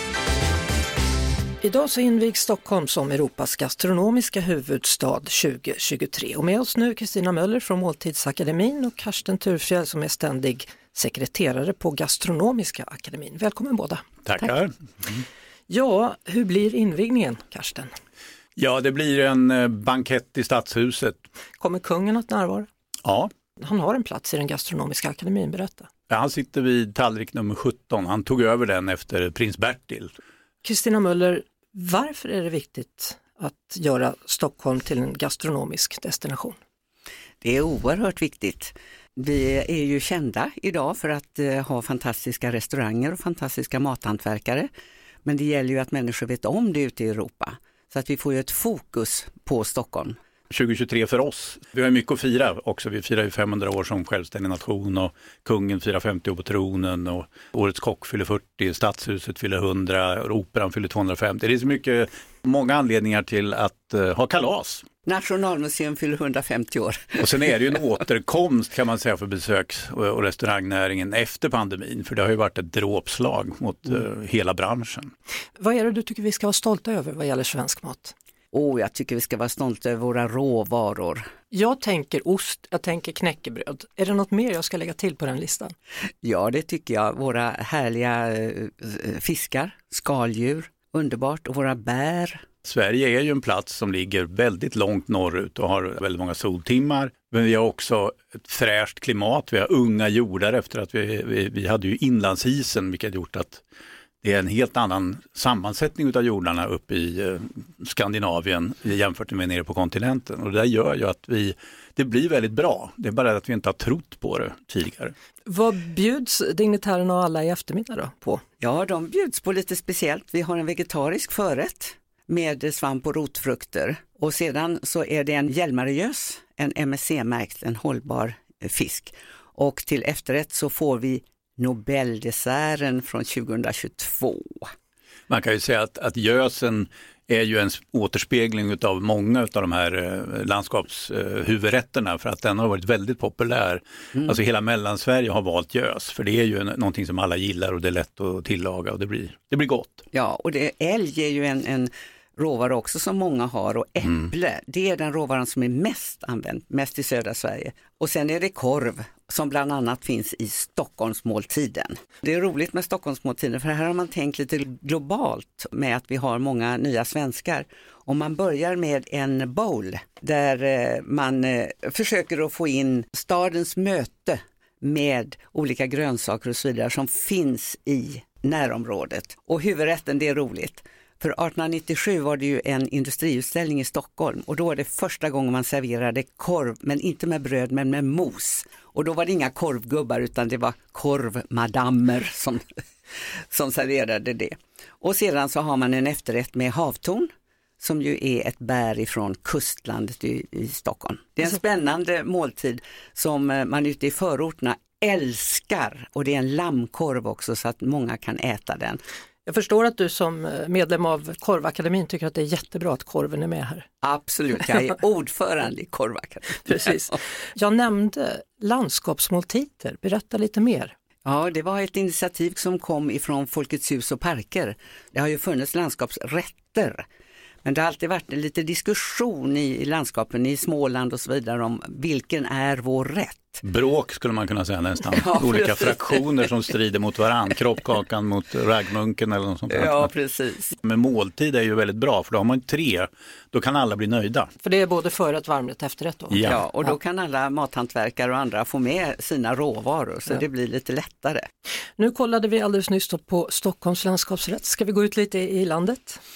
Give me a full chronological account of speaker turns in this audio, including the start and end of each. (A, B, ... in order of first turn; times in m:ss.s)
0:01.6-0:14.0 A
0:14.2-0:15.2 B
0:15.7-0:17.9 A
0:18.6-0:21.2 B
0:21.6-0:22.7 A
0:23.0-0:23.3 B
0:23.6-0:25.9 A
0:26.1-0:30.1 B
0:30.6-0:36.6 A
0:37.4-0:44.7 C
0:45.2-0:50.2 C
0:50.5-1:04.8 B
1:05.1-1:07.3 C
1:07.2-1:15.1 B
1:15.6-1:18.1 A
1:18.5-1:21.3 C
1:21.5-1:25.7 A
1:26.2-1:32.4 C
1:32.6-1:43.6 B
1:44.2-1:55.1 B
1:55.5-1:58.4 A
1:58.6-2:14.7 C
2:15.3-2:30.0 B
2:30.1-3:29.0 C
3:29.5-3:33.9 A
3:34.0-3:37.2 C
3:36.7-3:40.9 A
3:41.2-3:47.0 C
3:47.6-3:53.6 C
3:53.6-4:00.1 B
3:55.1-3:56.4 C
3:59.7-4:00.8 C
4:00.8-4:04.5 B
4:04.6-4:06.5 A
4:06.3-4:06.7 B
4:06.5-4:11.5 C
4:12.0-4:16.2 A